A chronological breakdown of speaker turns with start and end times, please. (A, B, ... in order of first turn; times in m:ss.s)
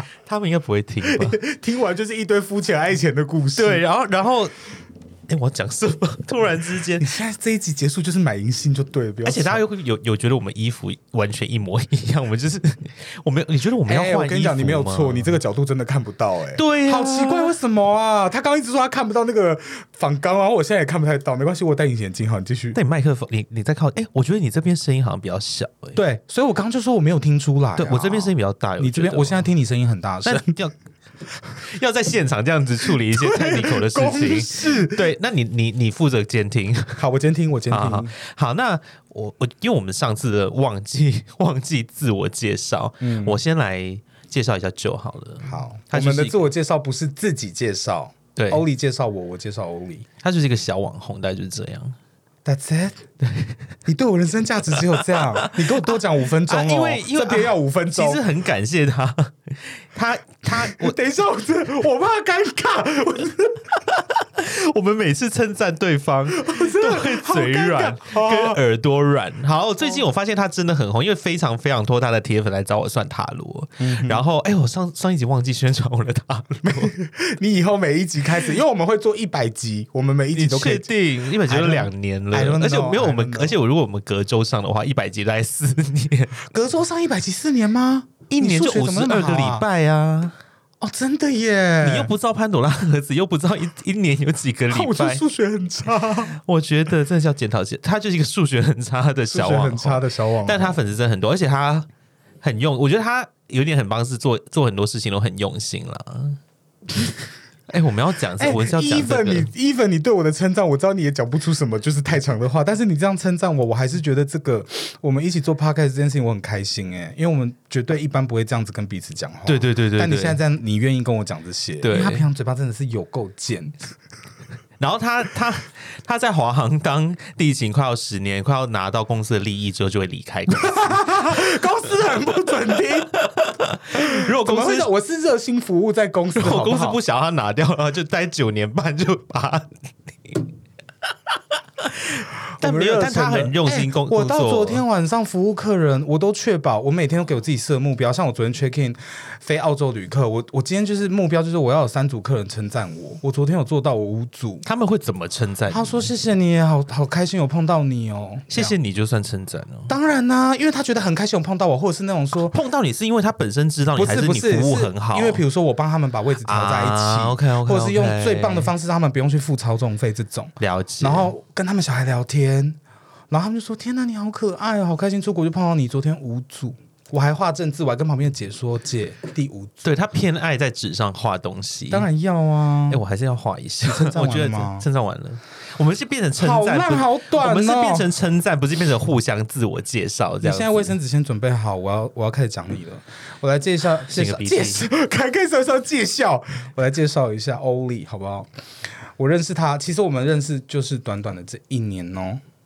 0:00.2-0:01.4 A
0:01.0-0:03.8 B
0:03.5-0:04.5 A
0:05.3-0:07.1 A
0:07.0-0:09.6 B
0:09.2-0:15.4 A
0:13.9-0:22.8 B
0:16.6-0:17.5 A
0:22.7-0:26.0 A
0:26.0-0:30.6 B
0:27.8-0:29.4 A
0:30.2-0:30.7 A
0:31.6-0:37.0 A
0:32.8-0:35.0 B
0:37.0-0:38.1 B
0:37.7-0:46.5 A
0:43.0-0:43.4 B
0:45.4-0:50.1 B
0:48.4-0:48.6 A
0:50.2-0:52.0 A
0:52.4-0:53.0 B
0:53.2-0:53.6 A
0:53.8-0:58.2 B
0:55.0-0:55.9 A
0:56.4-1:01.0 A
1:00.5-1:03.7 B
1:03.9-1:16.9 A
1:06.3-1:08.6 B
1:13.8-1:14.2 B
1:16.6-1:23.6 B
1:20.3-1:26.4 A
1:26.4-1:29.6 B
1:28.3-1:30.4 A
1:30.8-1:32.1 B
1:31.8-1:35.2 A
1:34.7-1:36.4 B
1:36.4-1:41.9 A
1:39.3-1:40.8 B
1:42.4-1:46.4 A
1:47.7-1:49.5 A
1:48.4-2:03.9 B
1:59.4-2:00.4 A
2:01.8-2:02.3 A
2:04.8-2:11.6 A
2:10.6-2:13.2 B
2:13.1-2:14.9 A
2:13.9-2:17.0 B
2:16.3-2:19.7 A
2:21.8-2:24.8 A
2:22.6-2:34.6 B
2:34.6-2:36.1 A
2:35.7-2:38.7 B
2:38.5-2:39.9 A
2:39.9-2:42.6 B
2:42.4-2:45.4 A
2:44.0-2:52.8 B
2:46.4-2:48.7 A
2:50.6-2:51.3 A
2:53.3-2:59.8 B
2:59.8-3:02.1 A
3:01.9-3:03.0 B
3:02.9-3:10.9 A
3:03.8-3:04.8 B
3:06.4-3:08.1 B
3:10.4-3:22.4 B
3:14.0-3:14.9 A